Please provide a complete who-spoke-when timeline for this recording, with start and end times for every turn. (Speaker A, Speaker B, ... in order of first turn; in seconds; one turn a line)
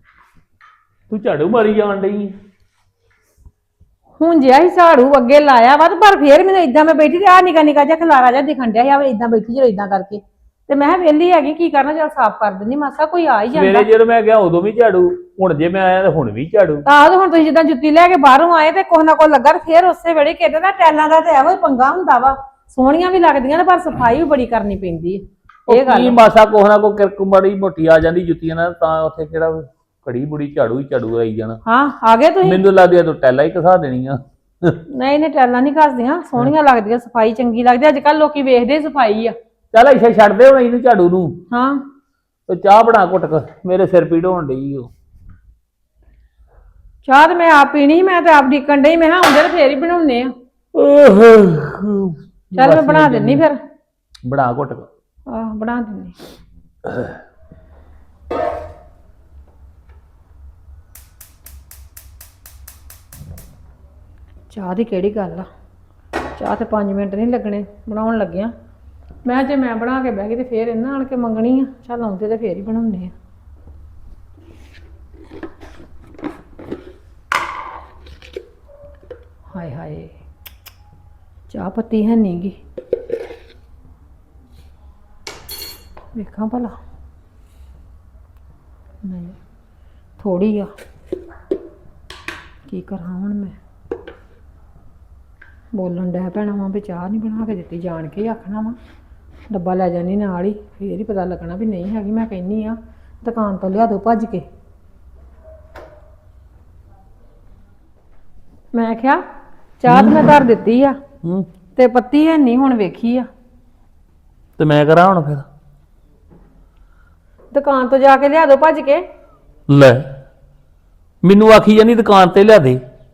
Speaker A: 1.1-2.3
Speaker B: 4.2-13.9
Speaker A: 13.5-16.8
Speaker B: 16.9-26.1
Speaker A: 25.7-31.6
Speaker B: 31.6-32.6
Speaker A: 32.4-34.8
Speaker B: 34.9-39.3
Speaker A: 39.7-41.4
Speaker B: 41.5-41.8
Speaker A: 42.5-44.9
Speaker B: 47.0-50.3
Speaker A: 50.7-53.4
Speaker B: 52.5-53.6
Speaker A: 54.2-54.9
Speaker B: 55.3-56.1
Speaker A: 56.9-57.1
Speaker B: 64.5-65.5
Speaker B: 66.3-68.5
Speaker B: 69.2-73.1
Speaker B: 79.5-80.1
Speaker B: 81.5-82.6
Speaker B: 86.1-86.8
Speaker B: 89.0-89.4
Speaker B: 90.2-90.7
Speaker B: 92.7-93.6
Speaker B: 95.7-98.8
Speaker B: 99.5-104.4
Speaker B: 108.7-109.2
Speaker B: 109.8-111.0
Speaker A: 109.9-110.3
Speaker B: 111.8-113.3
Speaker A: 114.6-115.5
Speaker B: 117.5-119.0
Speaker A: 119.7-120.1
Speaker A: 121.2-122.8